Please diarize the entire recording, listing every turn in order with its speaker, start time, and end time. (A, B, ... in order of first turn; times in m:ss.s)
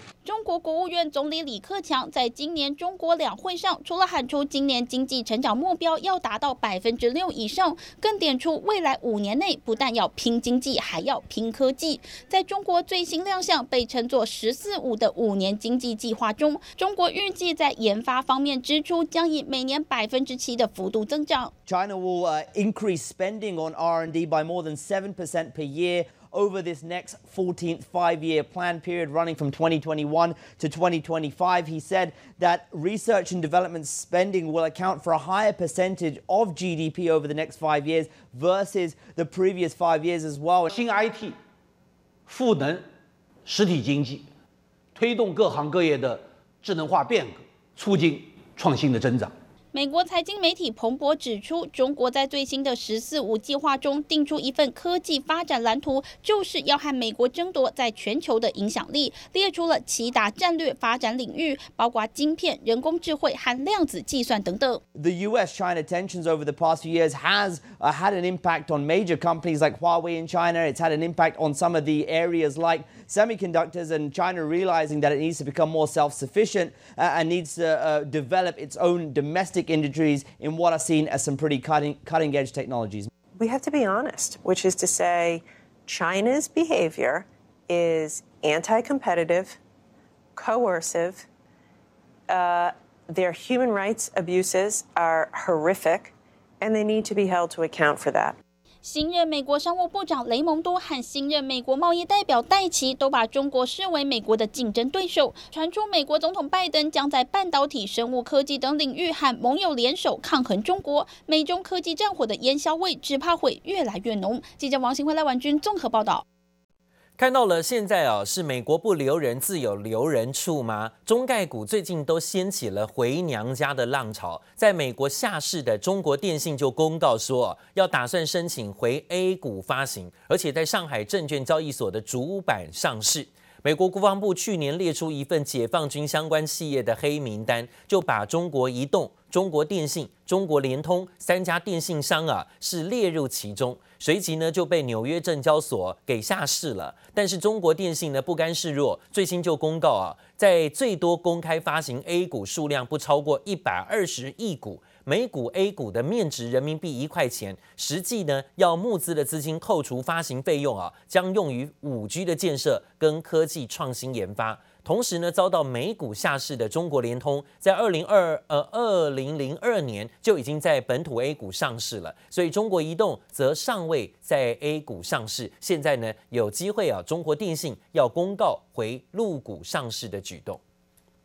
0:00.2-0:21.5 A
0:21.7-0:40.7 B
0:40.7-0:41.4 C
0:42.3-0:42.9 C
0:43.4-0:44.3 C
0:44.9-0:49.4 C
0:49.7-1:04.8 A
1:05.0-1:23.1 B
1:23.4-1:29.6 D
1:30.4-1:31.2 D
1:32.3-1:38.4 D
1:38.8-1:56.2 A
1:57.2-3:00.6 E